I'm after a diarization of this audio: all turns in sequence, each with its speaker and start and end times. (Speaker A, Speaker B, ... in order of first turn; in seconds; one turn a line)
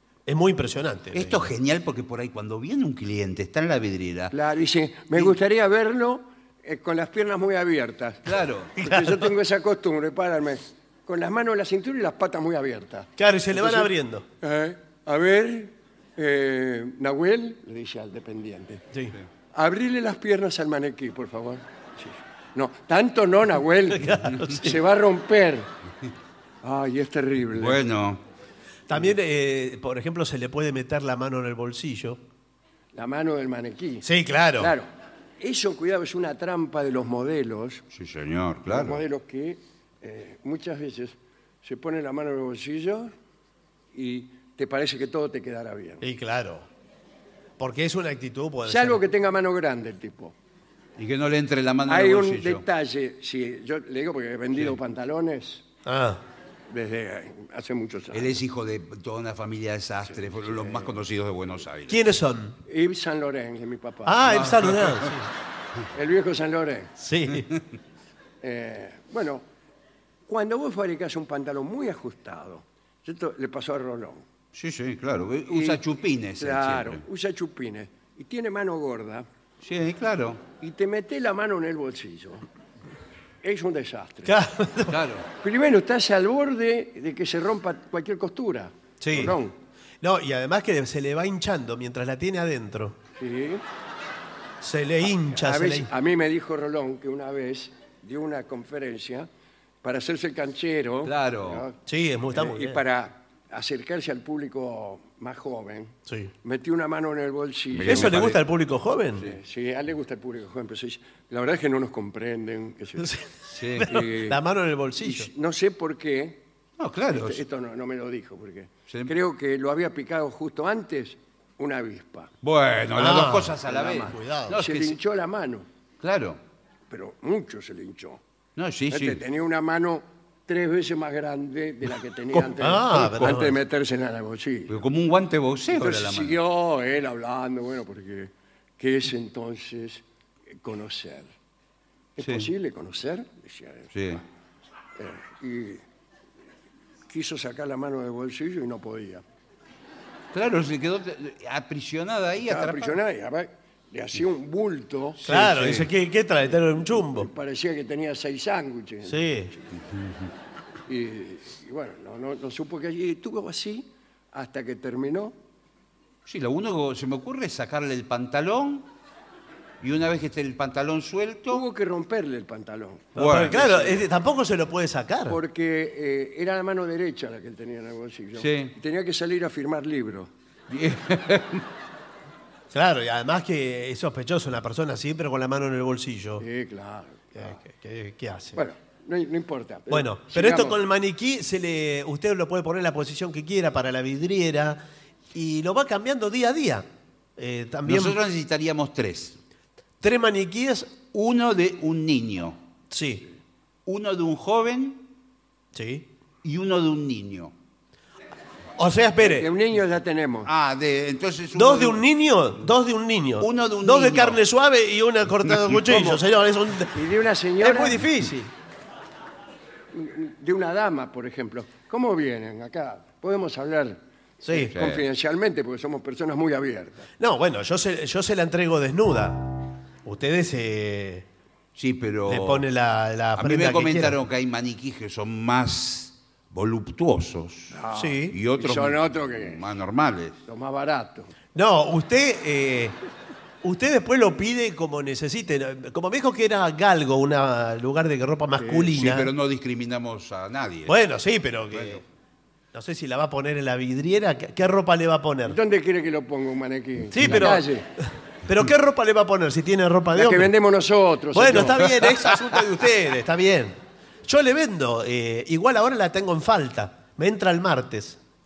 Speaker A: 0.3-1.5
Speaker B: 1.1-4.3
Speaker C: 4.3-13.9
Speaker B: 8.2-8.7
Speaker A: 8.8-9.3
Speaker A: 13.2-14.2
Speaker C: 14.4-18.8
Speaker C: 19.5-25.7
Speaker A: 23.9-24.8
Speaker C: 26.6-27.8
Speaker B: 27.6-28.2
Speaker A: 28.9-32.2
Speaker C: 32.9-34.1
Speaker A: 34.0-34.7
Speaker C: 34.6-34.9
Speaker C: 35.4-37.8
Speaker B: 37.9-39.0
Speaker C: 38.7-43.1
Speaker C: 43.9-46.0
Speaker A: 46.0-46.7
Speaker A: 47.6-49.0
Speaker C: 48.7-50.3
Speaker B: 51.0-52.6
Speaker C: 51.9-55.6
Speaker A: 55.9-56.2
Speaker C: 56.7-58.4
Speaker B: 58.1-62.0
Speaker C: 60.1-61.0
Speaker A: 61.9-62.6
Speaker C: 62.7-64.5
Speaker A: 64.1-65.3
Speaker B: 64.3-65.1
Speaker C: 65.9-67.0
Speaker A: 67.0-67.5
Speaker B: 67.3-67.6
Speaker C: 68.4-69.5
Speaker C: 70.3-74.2
Speaker B: 74.5-77.0
Speaker C: 75.5-75.8
Speaker C: 76.4-79.3
Speaker B: 79.6-80.4
Speaker C: 80.6-82.5
Speaker C: 83.4-84.4
Speaker A: 84.3-85.0
Speaker B: 84.9-85.3
Speaker C: 85.4-89.5
Speaker A: 89.0-89.4
Speaker A: 90.0-93.0
Speaker C: 93.2-93.6
Speaker A: 94.6-95.9
Speaker C: 95.3-99.3
Speaker C: 99.8-101.8
Speaker B: 101.0-101.6
Speaker A: 101.9-102.8
Speaker C: 102.3-108.3
Speaker A: 106.1-106.3
Speaker B: 107.7-108.4
Speaker A: 107.9-109.3
Speaker C: 109.2-113.1
Speaker A: 113.0-115.3
Speaker B: 113.5-114.0
Speaker C: 113.8-114.4
Speaker C: 115.0-116.4
Speaker B: 116.8-117.4
Speaker C: 117.1-122.3
Speaker B: 122.4-125.0
Speaker A: 123.0-124.6
Speaker C: 123.7-125.7
Speaker B: 126.0-126.4
Speaker C: 126.9-128.2
Speaker B: 128.6-129.2
Speaker C: 128.9-134.7
Speaker A: 132.6-133.6
Speaker B: 134.7-136.4
Speaker C: 135.7-140.0
Speaker C: 140.6-141.3
Speaker C: 142.2-144.2
Speaker B: 142.2-142.5
Speaker B: 143.9-144.2
Speaker C: 145.0-145.8
Speaker C: 147.1-149.2
Speaker B: 150.3-153.0
Speaker C: 152.4-155.2
Speaker B: 155.2-155.9
Speaker A: 155.2-157.3
Speaker C: 156.9-159.3
Speaker A: 159.1-159.5
Speaker C: 160.9-165.3
Speaker B: 166.3-168.9
Speaker B: 169.8-171.6
Speaker C: 171.5-174.0
Speaker A: 173.2-175.4
Speaker B: 173.2-173.9
Speaker C: 175.3-180.3
Speaker B: 178.4-178.7
Speaker B: 180.7-181.7
Speaker A: 182.7-186.4
Speaker C: 186.4-187.6
Speaker A: 187.4-188.6
Speaker C: 188.6-190.8
Speaker A: 189.9-196.9
Speaker A: 197.4-198.2
Speaker B: 197.9-199.4
Speaker A: 200.0-200.9
Speaker B: 201.1-202.6
Speaker A: 202.9-203.3
Speaker B: 203.9-205.1
Speaker A: 205.8-206.1
Speaker B: 206.4-207.5
Speaker A: 208.8-209.5
Speaker C: 209.2-210.5
Speaker B: 210.5-212.0
Speaker A: 211.5-217.0
Speaker B: 213.4-214.4
Speaker C: 215.9-216.2
Speaker C: 216.9-218.0
Speaker A: 217.6-218.5
Speaker C: 219.9-227.1
Speaker A: 224.4-224.8
Speaker B: 224.7-225.0
Speaker A: 227.2-231.3
Speaker B: 231.8-232.7
Speaker A: 232.3-234.2
Speaker B: 233.4-237.8
Speaker C: 237.7-239.6
Speaker A: 237.9-238.4
Speaker B: 238.3-240.4
Speaker C: 240.5-241.3
Speaker A: 241.6-243.0
Speaker A: 243.6-249.3
Speaker C: 248.6-248.9
Speaker B: 248.9-250.9
Speaker A: 250.9-252.0
Speaker B: 251.7-252.0
Speaker A: 252.7-255.6
Speaker C: 255.4-257.9
Speaker A: 257.1-260.5
Speaker B: 257.2-257.5
Speaker C: 260.1-261.8
Speaker A: 261.3-268.2
Speaker B: 261.8-262.4